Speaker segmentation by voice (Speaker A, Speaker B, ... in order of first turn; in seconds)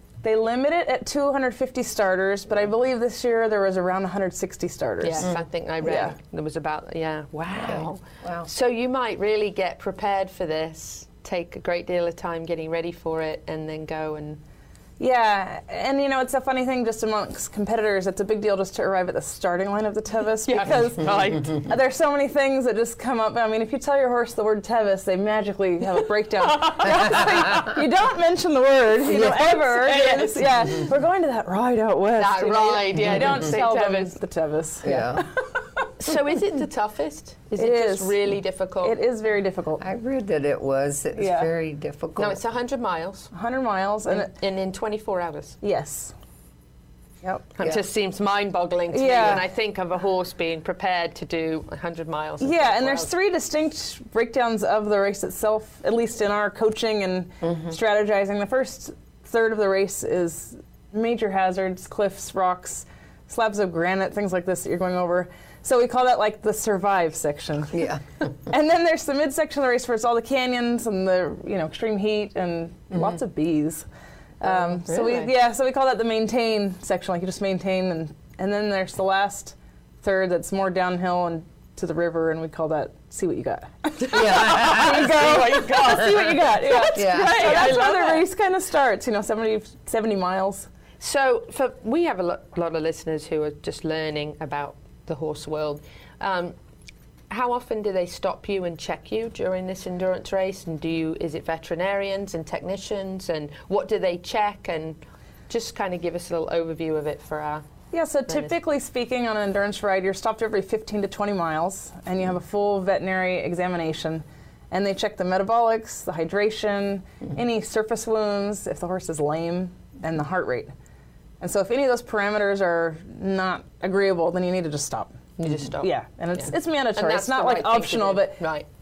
Speaker A: 0.2-6.2, 15.0-35.7, 37.6-39.8, 41.2-41.5, 43.3-44.3, 45.6-46.1, 48.9-49.5, 52.4-67.9, 68.5-73.9, 74.4-90.7, 107.9-120.7, 121.4-125.1, 125.8-128.4
Speaker B: 5.0-14.4, 20.4-21.7, 26.4-27.3, 29.5-30.8, 32.2-34.2, 36.0-39.0, 42.2-43.3, 44.1-45.6, 47.5-53.1, 74.4-75.3, 84.2-88.3, 91.0-96.6, 97.3-107.6, 108.3-108.5, 125.4-128.7
Speaker C: 5.2-5.5, 7.5-8.5, 29.1-29.6, 33.0-33.5, 34.8-35.3, 39.8-42.4, 67.7-68.0, 72.9-73.2, 84.1-85.3, 87.0-87.6